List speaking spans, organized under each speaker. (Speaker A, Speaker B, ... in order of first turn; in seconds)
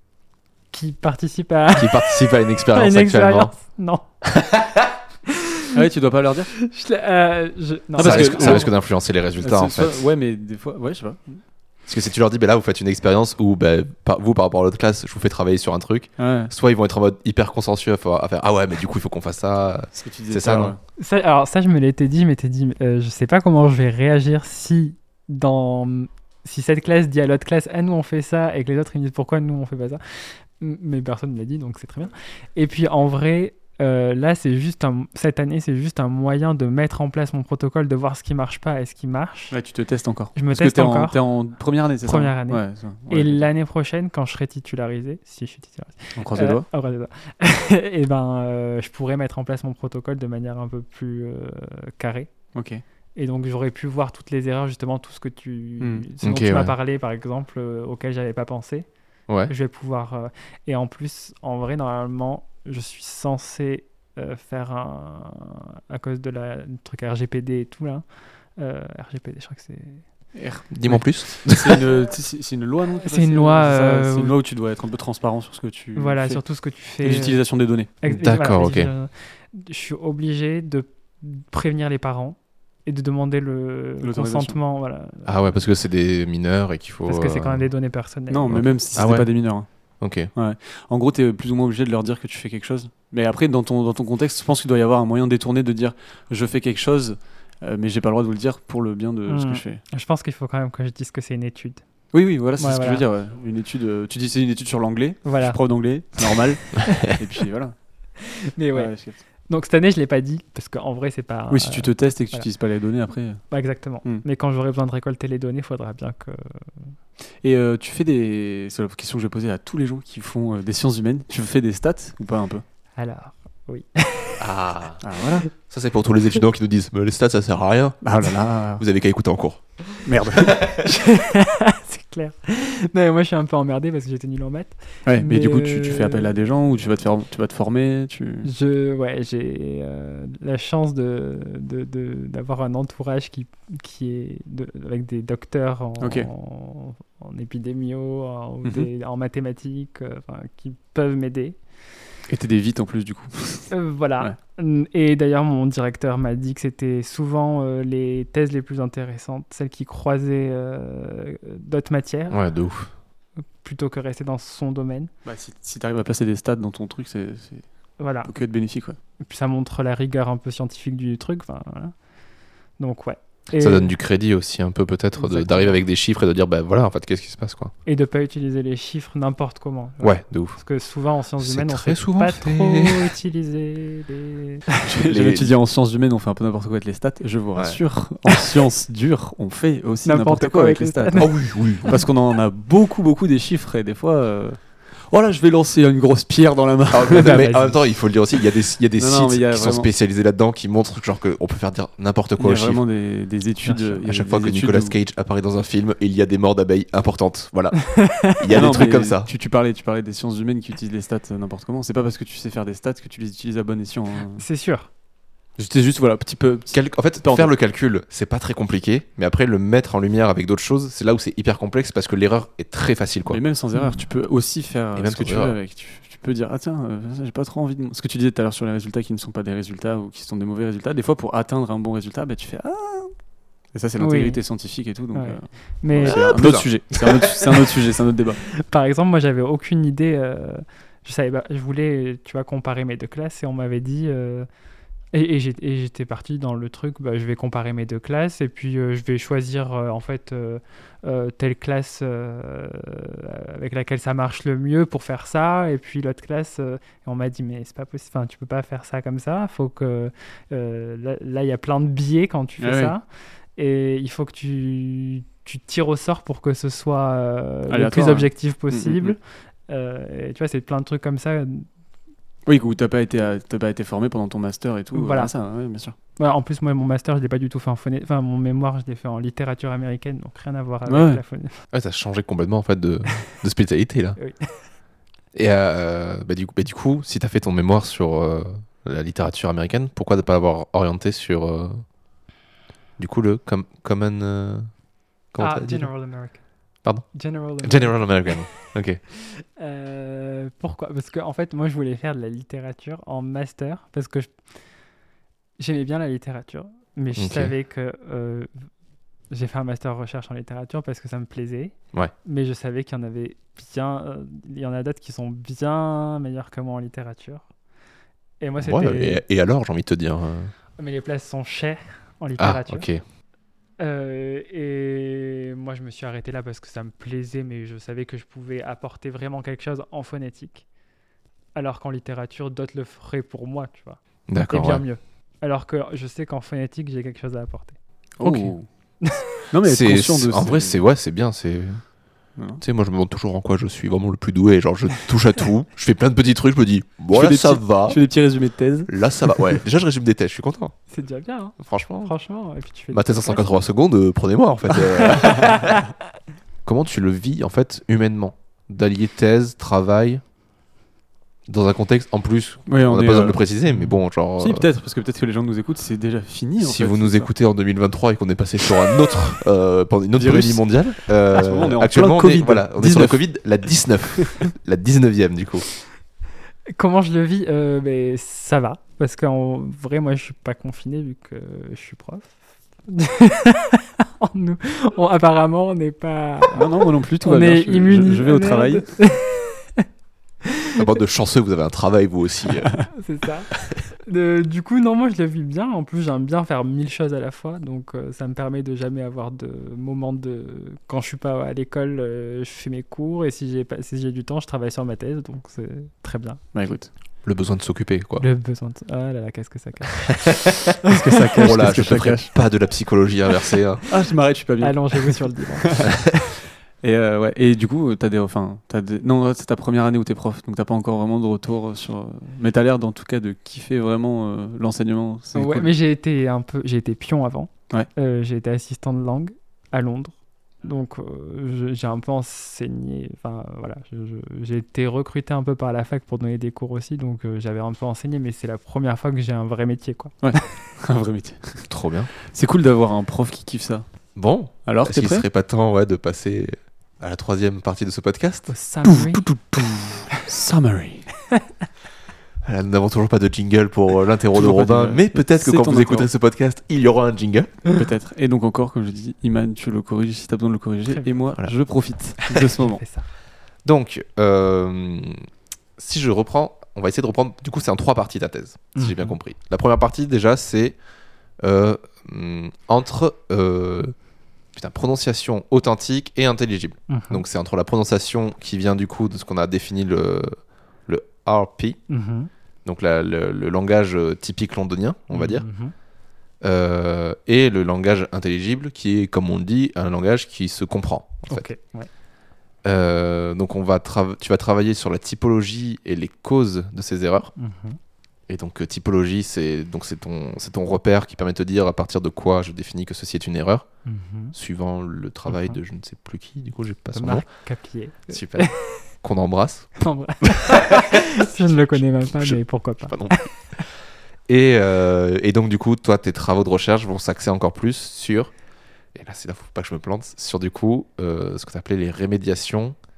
Speaker A: 0.7-4.0, 5.3-5.8, 6.6-8.7, 21.0-39.5, 40.3-41.2, 42.0-52.3, 53.1-58.9, 59.5-68.0, 68.6-70.0, 73.0-74.3, 76.0-77.4, 78.0-85.3, 87.0-88.7, 99.3-101.8, 102.6-103.0, 105.2-105.6, 106.3-107.1, 108.2-108.9, 109.4-112.5, 113.5-116.9, 123.0-124.4, 130.8-136.3, 138.4-151.6, 153.7-162.4, 163.6-165.1, 168.0-168.3, 169.2-171.9, 172.8-173.9, 177.8-184.7, 190.0-191.3, 197.1-197.8, 203.6-204.0, 207.8-208.4, 214.4-214.9, 223.7-224.0, 234.0-234.4, 235.1-236.3, 238.6-244.5, 245.1-263.0, 263.6-269.2, 269.7-271.7, 274.9-275.3, 276.2-281.5, 284.2-284.6, 295.4-296.4, 297.1-298.4, 299.1-304.3, 305.6-308.5, 309.3-317.4, 318.4-319.2, 320.8-322.9, 323.8-330.6, 331.5-337.8, 339.0-339.4, 350.9-353.4, 355.0-355.8, 376.7-382.4, 382.9-389.8, 390.4-390.8, 392.9-406.4, 408.2-410.4, 414.6-416.1, 425.3-440.5, 448.5-449.2, 462.2-463.1, 468.7-469.1, 476.9-477.2, 481.9-482.3, 485.1-485.7, 491.3-491.9, 497.4-497.8, 503.9-504.4, 505.3-505.6, 506.9-508.8, 509.8-513.6
Speaker B: 1.8-3.5, 4.2-4.9, 8.0-10.0, 11.9-20.8, 56.2-56.7, 70.7-71.8, 78.1-78.9, 85.2-87.7, 88.5-89.3, 90.0-90.3, 124.4-125.0, 125.6-128.1, 128.8-129.6, 130.5-130.9, 162.3-162.9, 173.6-177.7, 180.0-180.6, 181.4-183.1, 185.0-185.5, 187.5-187.8, 191.2-191.9, 196.9-202.8, 204.0-209.3, 216.7-223.4, 224.9-225.6, 236.0-237.5, 281.7-284.2, 285.3-291.8, 293.0-294.7, 295.3-295.9, 297.6-299.0, 307.1-307.5, 318.6-320.5, 322.4-323.0, 334.3-334.8, 338.2-338.5, 339.6-341.8, 342.6-348.0, 348.9-350.7, 351.6-352.1, 352.9-355.8, 356.6-360.2, 361.5-364.7, 366.6-375.6, 390.8-392.8, 407.2-408.2, 410.2-413.8, 441.7-442.1, 444.1-448.5, 452.4-457.6, 463.6-465.2, 465.8-470.8, 471.4-473.9, 474.5-480.3, 480.9-481.8, 482.6-485.4, 486.4-491.5, 492.6-497.3, 498.3-503.6, 504.3-507.2, 508.1-508.5, 509.0-513.3, 514.3-518.3, 518.9-522.8
Speaker C: 5.7-6.5, 7.9-8.7, 9.4-11.4, 16.2-16.5, 20.0-20.8, 39.5-43.5, 46.1-46.6, 52.5-52.8, 55.8-56.0, 70.3-76.4, 77.0-78.0, 84.0-84.6, 88.3-89.7, 90.3-99.8, 102.1-107.7, 108.7-109.2, 111.5-113.5, 117.4-122.6, 125.0-125.5, 128.0-128.8, 130.0-130.7, 135.1-138.5, 146.0-146.3, 148.6-148.9, 152.3-154.3, 165.2-167.7, 168.2-169.0, 175.2-175.8, 184.8-197.4, 199.0-199.9, 202.4-204.9, 208.5-214.4, 215.6-217.5, 223.3-233.1, 233.7-238.4, 262.6-262.9, 267.7-269.1, 272.4-275.9, 280.9-281.2, 338.2-338.7, 339.5-340.8, 347.1-348.9, 362.7-363.4, 364.4-367.3, 370.2-373.2, 374.2-374.5, 386.5-389.0, 406.5-406.9, 410.8-412.3, 413.9-415.9, 416.8-425.7, 440.2-441.7, 442.3-443.8, 444.6-445.2, 448.8-451.1, 454.3-456.1, 457.7-462.8